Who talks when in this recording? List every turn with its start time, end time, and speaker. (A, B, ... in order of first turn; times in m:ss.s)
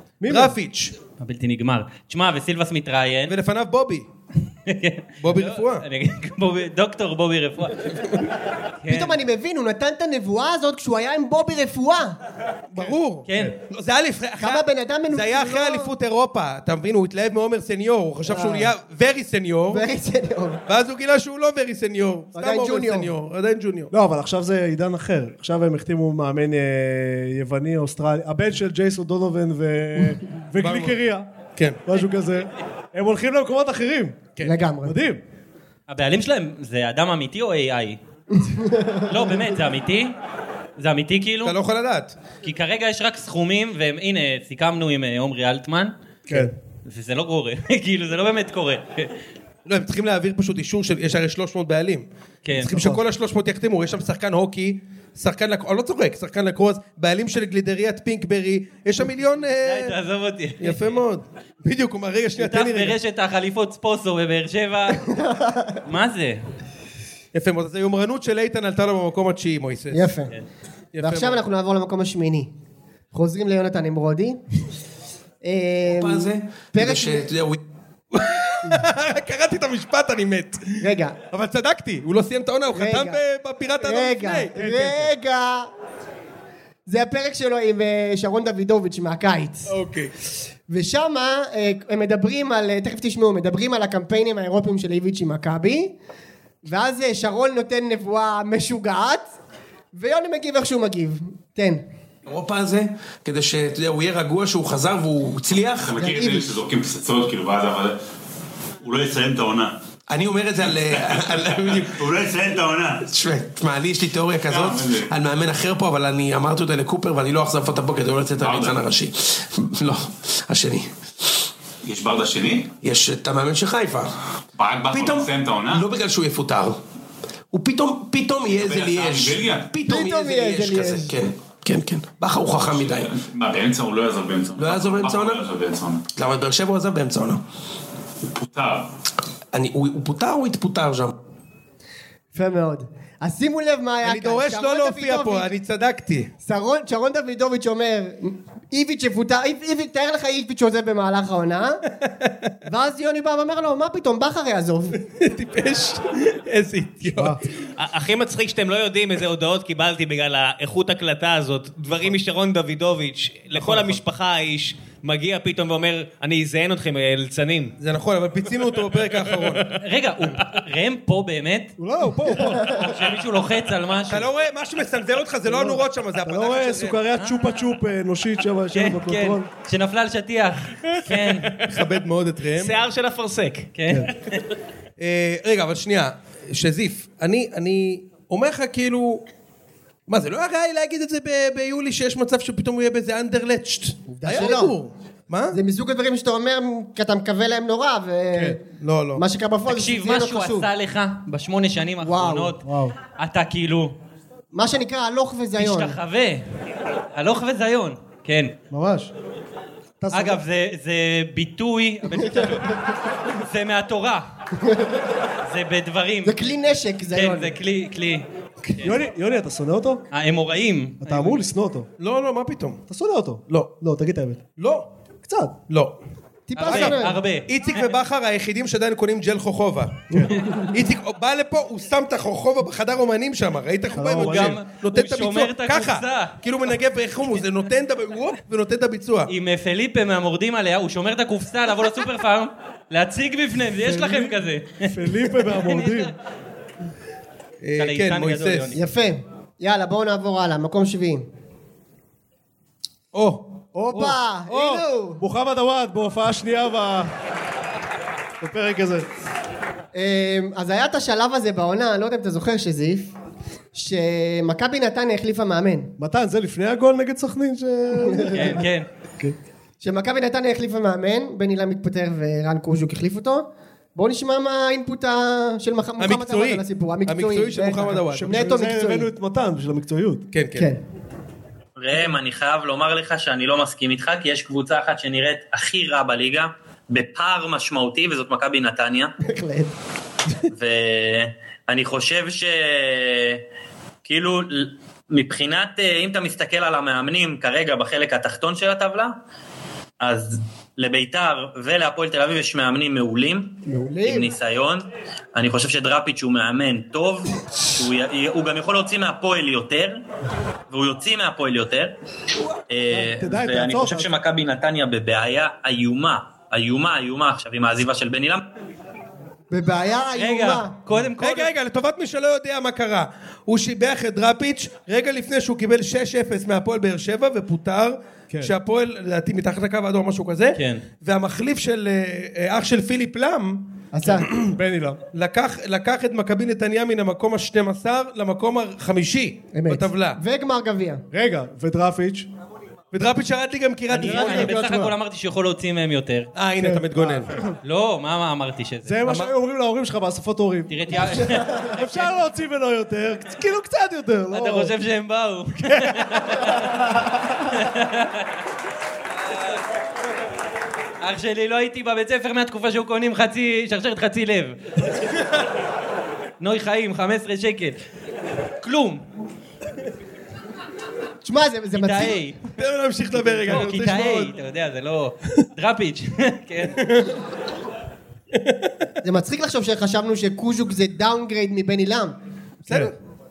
0:00.2-0:00.6 A
0:00.2-0:00.9 B
0:01.2-0:03.3 C
0:03.3-0:04.1 B
0:04.7-0:07.9 C
0:05.2-0:05.8 B
0:08.8-0:09.2 C
0:08.9-0:12.2 D
0:12.7-0:19.8 B
0:13.3-0:13.5 C
0:14.4-0:15.9 D
0:18.2-0:18.7 D
0:19.7-0:20.6 D
0:20.7-0:23.9 B
0:22.4-0:23.1 D
0:23.9-0:31.3 A
0:30.6-0:31.0 B
0:31.6-0:31.8 B
0:31.8-0:34.3 A
0:34.4-0:35.0 D
0:34.8-0:35.2 A
0:35.9-0:38.0 C
0:38.3-0:39.0 D
0:39.1-0:40.1 C
0:40.8-0:41.6 C
0:41.4-0:42.2 B
0:42.4-0:45.9 C
0:46.8-0:49.1 C
0:49.6-0:59.9 B
0:52.4-0:52.8 C
0:52.7-0:53.0 A
0:59.6-1:01.0 C
1:00.6-1:03.0 B
1:02.4-1:05.0 C
1:05.0-1:05.8 D
1:05.8-1:06.4 C
1:07.3-1:10.1 B
1:09.9-1:10.3 D
1:10.9-1:11.4 B
1:11.0-1:12.5 D
1:13.1-1:14.4 D
1:15.4-1:17.3 D
1:15.9-1:17.6 E
1:18.1-1:20.6 B
1:20.8-1:21.2 D
1:21.3-1:24.6 B
1:22.7-1:23.2 D
1:23.8-1:25.7 D
1:24.5-1:25.1 A
1:26.9-1:29.7 D
1:29.7-1:30.1 B
1:30.7-1:35.9 D
1:36.6-1:39.2 D
1:39.9-1:41.8 D
1:42.3-1:45.9 E
1:45.8-1:48.0 F
1:46.0-1:46.5 D
1:48.8-1:49.7 F
1:50.1-1:51.9 E
1:50.9-1:53.1 F
1:53.1-2:00.9 E
1:54.5-1:55.1 F
1:58.3-1:58.8 F
2:01.8-2:02.8 F
2:02.8-2:04.1 E
2:04.6-2:05.8 F
2:04.9-2:06.8 E
2:07.5-2:13.1 E
2:08.4-2:09.7 F
2:09.9-2:11.1 D
2:12.4-2:16.0 F
2:14.6-2:15.4 E
2:16.1-2:17.4 E
2:18.4-2:18.9 F
2:19.5-2:21.1 E
2:22.3-2:25.5 D
2:24.0-2:26.3 B
2:26.4-2:31.8 D
2:32.6-2:35.0 D
2:35.1-2:37.4 B
2:37.1-2:37.4 A
2:37.8-2:47.7 G
2:43.6-2:44.0 B
2:47.8-2:49.7 B
2:49.8-2:51.7 C
2:51.8-2:52.9 A
2:52.6-2:54.3 C
2:54.1-2:57.0 B
2:55.4-2:59.5 A
2:57.2-2:57.7 C
2:58.7-3:01.6 C
3:01.7-3:02.8 B
3:02.6-3:03.7 G
3:03.8-3:04.4 C
3:05.0-3:09.2 B
3:10.1-3:15.6 B
3:14.1-3:14.8 D
3:15.5-3:18.6 D
3:18.8-3:19.2 B
3:19.2-3:20.7 D
3:19.7-3:22.6 C
3:22.0-3:22.5 D
3:22.6-3:22.9 A
3:23.2-3:23.9 C
3:24.5-3:26.0 D
3:25.6-3:26.4 C
3:27.1-3:28.5 C
3:28.7-3:29.1 A
3:30.0-3:30.4 A
3:30.1-3:32.7 C
3:33.3-3:34.2 C
3:34.6-3:35.0 D
3:35.5-3:36.6 C
3:36.2-3:37.5 D
3:37.1-3:39.0 C
3:38.8-3:40.0 A
3:40.1-3:41.4 C
3:41.0-3:41.9 A
3:42.0-3:42.8 B
3:42.9-3:44.5 A
3:44.6-3:44.9 B
3:45.2-3:45.6 A
3:45.7-3:46.0 B
3:46.5-3:47.2 D
3:46.6-3:47.9 C
3:46.7-3:50.1 B
3:50.1-3:50.5 A
3:50.7-3:59.3 B
3:53.9-3:54.6 A
3:54.0-3:56.3 C
3:59.3-4:06.1 C
4:03.7-4:06.1 A
4:07.6-4:08.7 B
4:07.8-4:08.8 C
4:08.7-4:11.2 D
4:13.1-4:13.4 B
4:13.7-4:17.1 A
4:13.9-4:15.2 D
4:18.4-4:19.0 A
4:19.9-4:23.1 D
4:23.7-4:25.9 D
4:26.0-4:28.7 A
4:28.0-4:28.5 D
4:28.3-4:28.9 C
4:29.8-4:39.1 D
4:36.0-4:38.5 B
4:38.1-4:40.3 A
4:40.3-4:40.7 B
4:41.8-4:49.1 H
4:49.2-4:49.7 D
4:50.5-4:53.4 H
4:54.0-4:59.1 H
5:00.0-5:10.0 H
5:03.7-5:04.3 D
5:10.7-5:11.9 H
5:12.7-5:18.4 H
5:12.9-5:14.1 A
5:19.5-5:20.7 D
5:20.2-5:21.5 C
5:21.2-5:34.5 B
5:30.6-5:30.8 C
5:33.9-5:34.3 D
5:34.4-5:35.0 A
5:35.1-5:40.2 B
5:39.5-5:41.0 D
5:41.1-5:42.3 A
5:42.9-5:44.6 B
5:43.9-5:46.3 C
5:44.0-5:44.9 A
5:46.4-5:47.4 B
5:46.6-5:47.5 A
5:47.6-5:49.2 C
5:48.8-5:54.7 A
5:49.0-5:49.3 B
5:50.7-5:52.1 C
5:54.3-5:58.3 C
5:55.6-5:56.2 A
6:01.0-6:04.6 C
6:06.4-6:07.8 C
6:08.6-6:09.0 C
6:11.2-6:12.2 D
6:11.7-6:12.4 C
6:12.6-6:14.3 B
6:13.5-6:16.8 C
6:16.8-6:17.1 B
6:18.3-6:18.6 B
6:19.0-6:22.1 D
6:22.6-6:22.9 B